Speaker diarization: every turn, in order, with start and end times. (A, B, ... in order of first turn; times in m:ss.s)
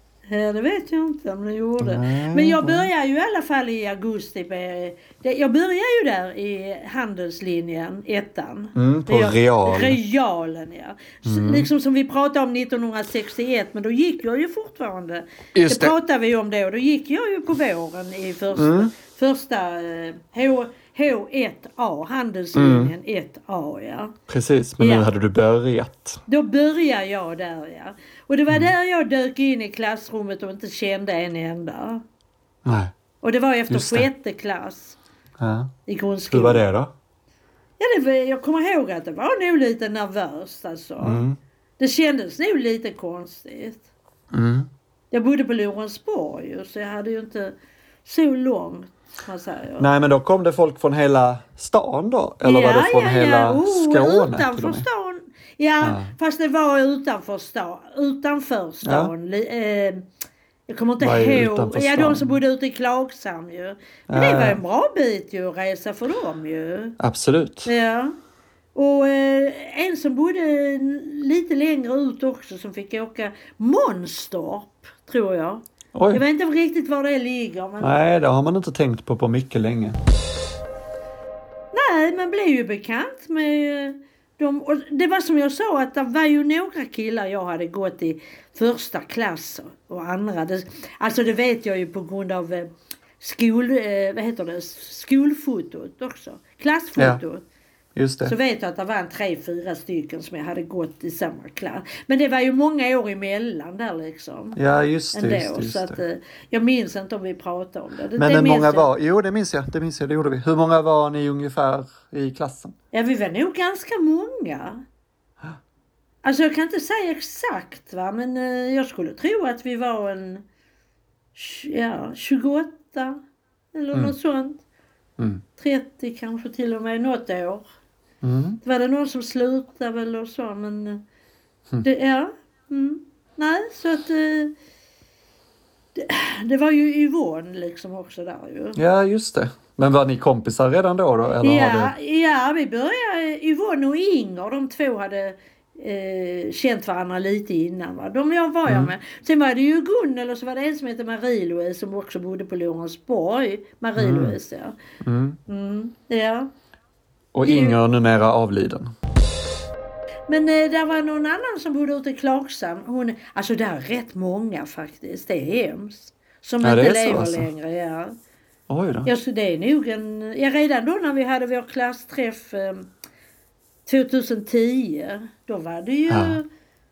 0:00.3-0:24.1 A
0:01.8-0:02.9 B
0:08.7-0:10.0 B
0:11.2-0:11.7 B
0:15.5-0:15.9 B
0:18.5-0:18.9 B
0:22.5-0:22.9 B
0:24.3-0:26.2 B
0:24.8-0:25.1 A
0:26.3-0:32.0 A
0:32.6-0:32.9 B
0:33.2-0:35.0 A
0:33.7-0:34.1 B
0:35.4-0:35.7 B
0:35.9-0:36.6 A
0:36.3-0:36.9 B
0:37.8-0:41.2 A
0:41.0-0:41.4 B
0:41.8-0:43.8 A
0:44.3-0:44.7 B
0:45.1-0:49.9 A
0:49.8-0:54.8 B
0:52.4-1:00.0 A
0:55.8-0:56.1 B
0:58.8-0:59.1 B
1:00.7-1:07.0 A
1:01.0-1:02.4 B
1:04.1-1:04.6 B
1:07.0-1:07.7 B
1:07.6-1:08.1 A
1:08.7-1:18.0 A
1:15.9-1:16.2 B
1:17.8-1:20.0 B
1:21.7-1:37.4 A
1:38.0-1:38.3 B
1:38.2-1:44.6 A
1:44.6-1:46.0 B
1:45.1-1:48.9 A
1:48.2-1:52.7 B
1:52.9-1:54.8 A
1:56.2-2:00.4 A
2:01.3-2:03.2 A
2:03.7-2:04.6 A
2:05.6-2:07.7 A
2:08.2-2:08.6 B
2:08.6-2:11.0 A
2:11.8-2:14.5 A
2:15.9-2:18.8 A
2:18.8-2:21.9 B
2:21.4-2:34.8 A
2:28.7-2:28.9 B
2:34.0-2:34.4 B
2:35.0-2:35.4 B
2:35.5-2:36.5 A
2:37.3-2:38.9 B
2:37.4-2:37.8 A
2:40.3-2:48.2 A
2:46.6-2:47.5 B
2:48.7-2:49.1 B
2:49.0-2:52.9 A
2:53.8-2:56.5 A
2:56.1-2:56.4 B